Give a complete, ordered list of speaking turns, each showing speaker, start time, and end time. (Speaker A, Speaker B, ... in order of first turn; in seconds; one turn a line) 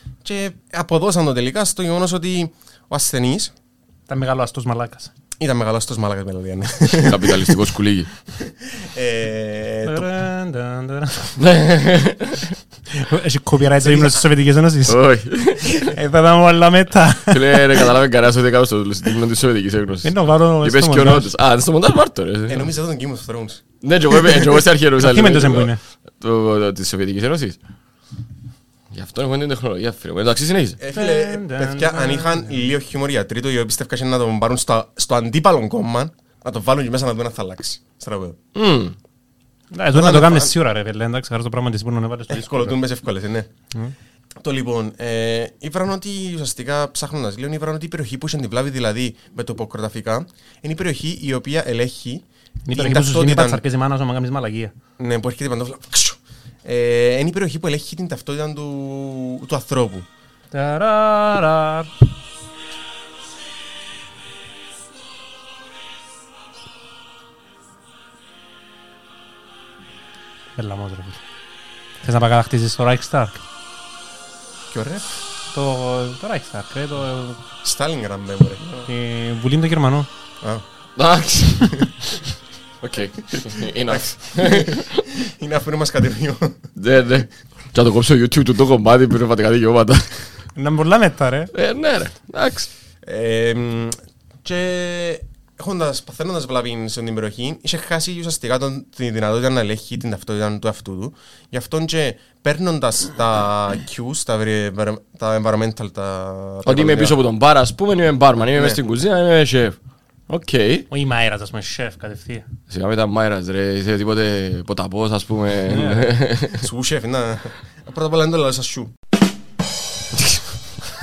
Speaker A: 0.2-3.5
Speaker B: 4.1-5.1
Speaker A: 5.4-7.6
Speaker C: 7.0-8.1
Speaker A: 8.4-10.1
Speaker B: 9.8-11.4
Speaker C: 11.4-12.6
Speaker B: 12.9-15.0
Speaker A: 13.8-14.2
Speaker C: 14.9-15.9
Speaker B: 15.6-17.8
Speaker C: 17.3-22.7
Speaker B: 20.0-21.3
Speaker A: 22.5-23.6
Speaker C: 23.8-27.6
Speaker B: 25.0-25.8
Speaker C: 28.9-30.8
Speaker A: 30.8-38.4
Speaker B: 30.9-32.6
Speaker C: 38.5-38.9
Speaker B: 39.7-42.8
Speaker A: 39.9-40.5
Speaker A: 42.3-43.5
Speaker A: 44.4-53.6
Speaker B: 52.6-54.7
Speaker A: 55.0-60.1
Speaker B: 60.5-61.9
Speaker B: 70.6-71.2
Speaker B: 72.0-73.4
Speaker A: 74.7-75.2
Speaker B: 75.5-77.4
Speaker A: 77.6-78.9
Speaker B: 78.8-80.1
Speaker C: 81.0-81.9
Speaker C: 82.8-85.0
Speaker A: 83.9-86.6
Speaker C: 86.8-90.3
Speaker B: 90.5-91.5
Speaker C: 91.5-92.7
Speaker A: 93.0-107.2
Speaker C: 106.6-109.8
Speaker A: 108.5-108.8
Speaker C: 110.3-110.8
Speaker B: 110.9-112.5
Speaker C: 112.7-116.7
Speaker B: 115.7-116.0
Speaker A: 116.5-118.9